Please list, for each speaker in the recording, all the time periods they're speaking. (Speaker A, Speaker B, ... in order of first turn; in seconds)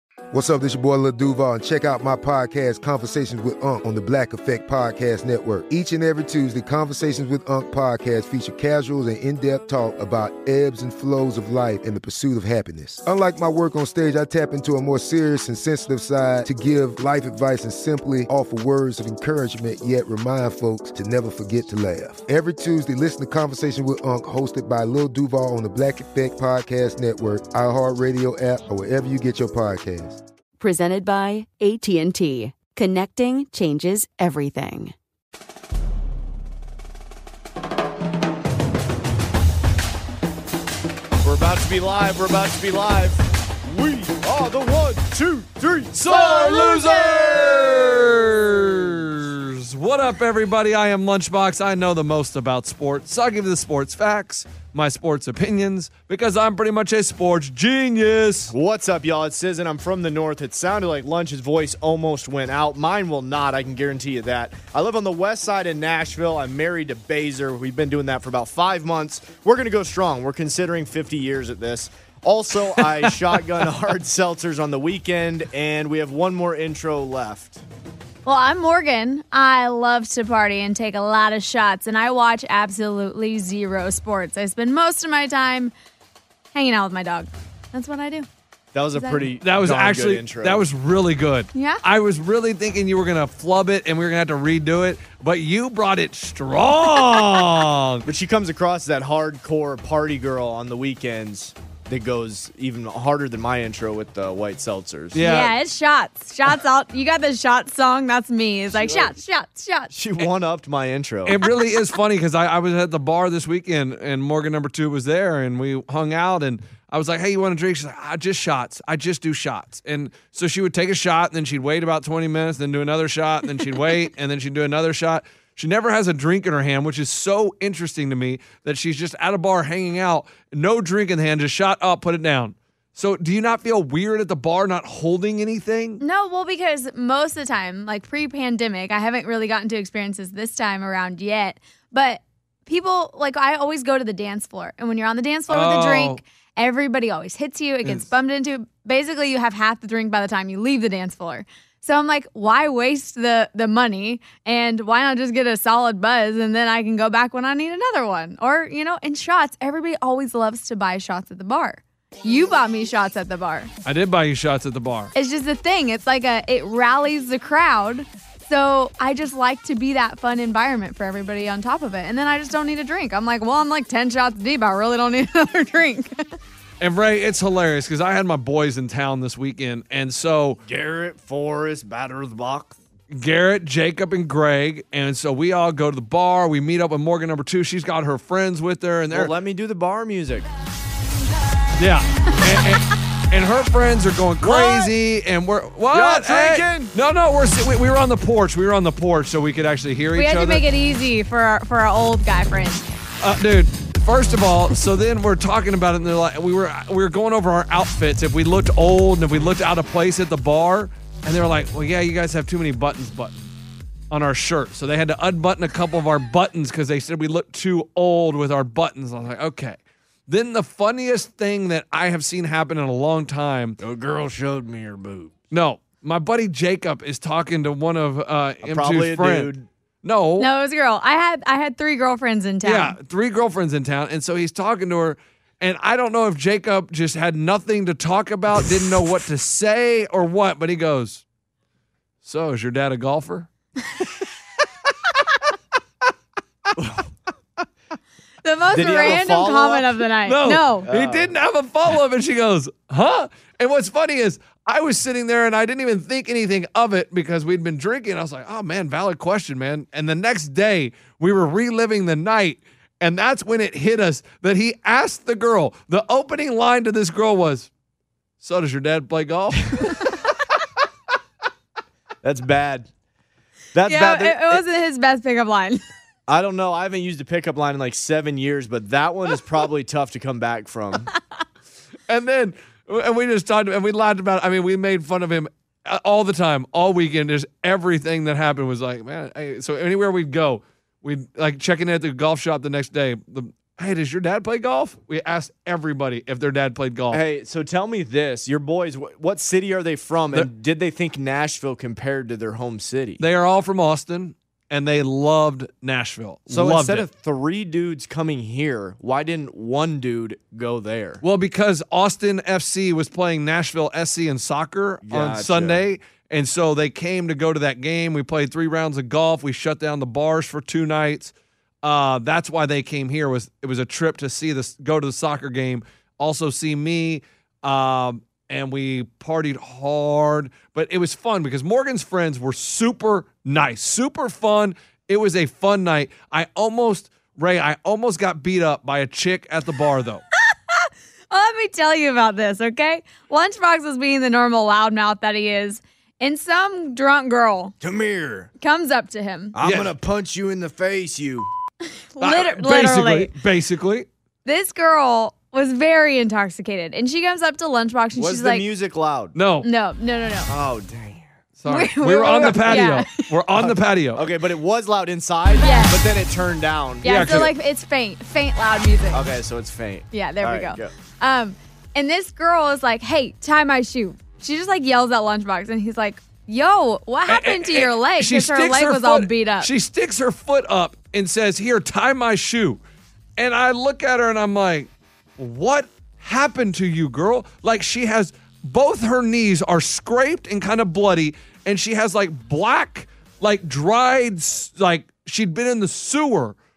Speaker A: 0.3-30.2
Speaker B: 30.6-34.9
Speaker C: 41.2-47.0, 58.5-77.6, 88.7-90.7, 98.0-105.2, 108.8-109.1, 109.9-111.4, 180.6-182.7, 189.1-190.5, 194.4-194.9, 195.9-196.9, 223.8-225.3, 228.6-229.7, 246.8-247.0, 248.7-249.9, 250.8-251.3, 272.2-272.9, 273.7-274.6, 276.3-281.1, 297.1-303.2, 306.5-311.2, 315.1-315.8, 347.8-348.5, 349.6-351.5, 358.2-359.4, 360.5-361.3, 363.6-367.4, 369.1-370.9
Speaker D: 45.9-58.5, 89.4-98.0, 105.1-105.5, 111.2-136.0, 145.5-146.2, 163.8-165.1, 176.8-180.6, 183.1-189.3, 191.8-200.6, 203.2-213.5, 214.1-223.8, 225.5-229.5, 230.0-230.5, 232.6-241.2, 242.2-243.5, 250.2-267.7, 268.4-270.0, 282.1-297.2, 303.2-307.1, 311.2-340.2, 349.6-349.9, 352.2-354.1, 359.3-359.7, 361.6-364.3, 367.1-367.5, 377.3-382.8, 383.4-396.6
Speaker E: 46.5-46.8, 78.2-85.7, 86.5-88.3, 88.9-89.3, 91.5-91.8, 105.2-109.9, 136.0-163.7, 165.1-176.2, 200.1-202.8, 230.4-232.9, 248.4-250.9, 273.9-275.8, 340.5-347.7, 348.6-349.6, 352.1-353.3, 354.4-358.6, 359.6-360.5, 361.6-363.2, 365.6-366.0, 367.0-369.2, 370.1-379.7